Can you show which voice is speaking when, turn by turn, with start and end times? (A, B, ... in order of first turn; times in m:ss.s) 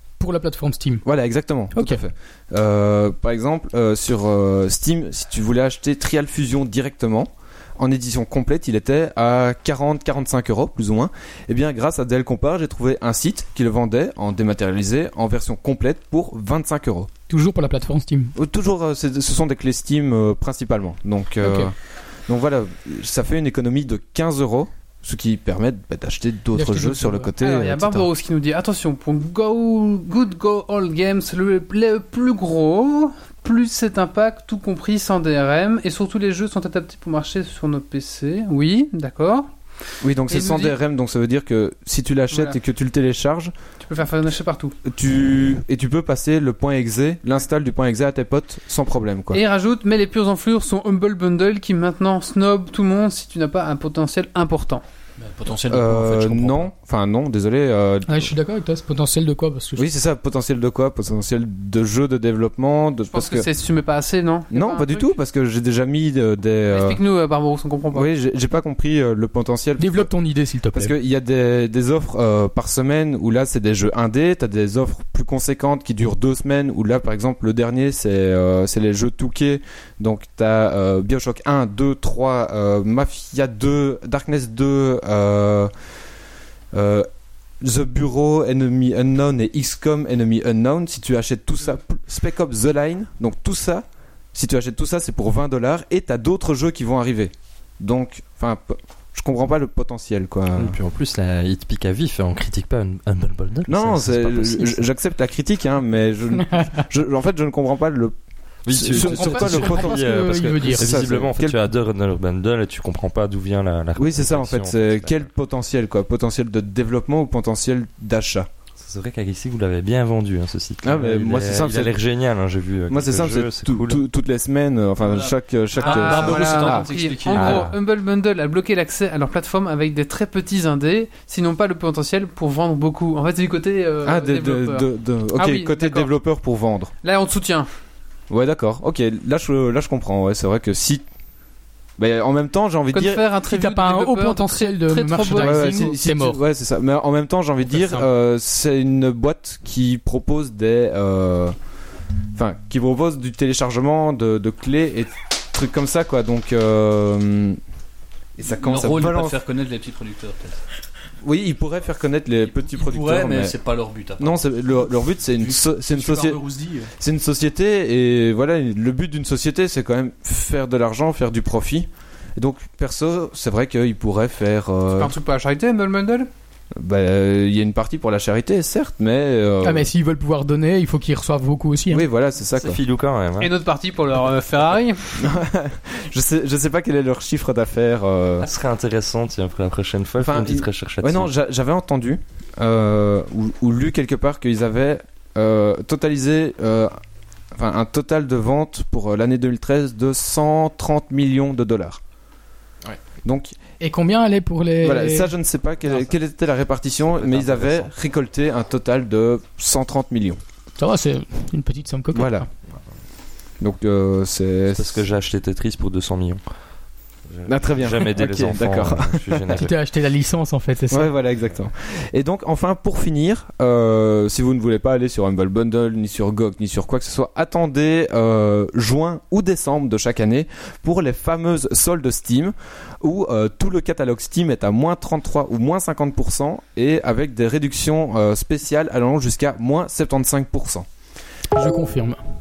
0:00.2-0:01.0 A
0:01.0-0:17.1 B
0:01.8-0:02.0 A
0:17.3-0:18.3 A
0:18.4-0:21.8 B
0:21.4-0:21.7 A
0:22.3-0:28.1 B
0:26.5-0:27.3 A
0:27.4-0:39.5 C
0:40.0-0:43.5 B
0:40.3-0:40.8 C
0:42.3-0:42.6 C
0:43.8-0:44.8 C
0:44.8-0:49.4 B
0:49.3-0:54.8 C
0:55.2-0:56.7 D
0:55.7-0:58.4 B
0:58.1-0:59.9 A
0:59.8-1:03.5 B
1:03.1-1:05.1 C
1:04.5-1:07.0 B
1:06.7-1:08.1 C
1:07.9-1:10.1 B
1:09.8-1:11.0 A
1:10.7-1:25.7 B
1:26.7-1:27.1 B
1:27.6-1:40.8 B
1:40.5-1:44.9 E
1:43.7-1:48.2 B
1:46.4-1:46.8 A
1:48.6-1:55.3 E
1:48.7-1:51.6 B
1:48.9-1:51.0 A
1:54.0-1:58.5 B
1:58.8-2:04.0 E
2:00.8-2:02.0 B
2:02.9-2:07.7 B
2:05.0-2:07.6 D
2:05.8-2:16.1 C
2:07.3-2:07.7 E
2:14.0-2:16.9 B
2:17.0-2:17.7 C
2:18.3-2:21.0 B
2:22.0-2:23.3 B
2:22.9-2:25.9 C
2:23.4-2:26.4 A
2:25.4-2:31.6 B
2:27.6-2:28.1 A
2:32.4-2:37.6 B
2:38.4-2:39.4 B
2:38.4-2:40.6 D
2:41.2-2:43.6 B
2:42.7-2:44.4 D
2:44.2-2:46.4 B
2:45.3-2:46.9 D
2:47.0-2:55.2 B
2:54.9-2:56.3 C
2:56.8-2:59.9 B
2:59.6-3:02.1 A
3:01.9-3:02.8 B
3:02.6-3:03.5 E
3:03.4-3:05.3 C
3:05.2-3:08.5 B
3:08.4-3:11.3 E
3:10.2-3:17.0 B
3:17.6-3:22.0 B
3:22.9-3:23.6 B
3:23.8-3:25.3 A
3:24.8-3:30.4 B
3:25.8-3:26.1 E
3:27.1-3:27.9 E
3:30.8-3:32.5 A
3:32.1-3:32.5 B
3:33.6-3:35.0 B
3:34.7-3:36.4 E
3:37.3-3:39.7 E
3:37.5-3:39.4 B
3:39.5-3:41.1 A
3:40.9-4:00.9 B
4:01.5-4:02.2 A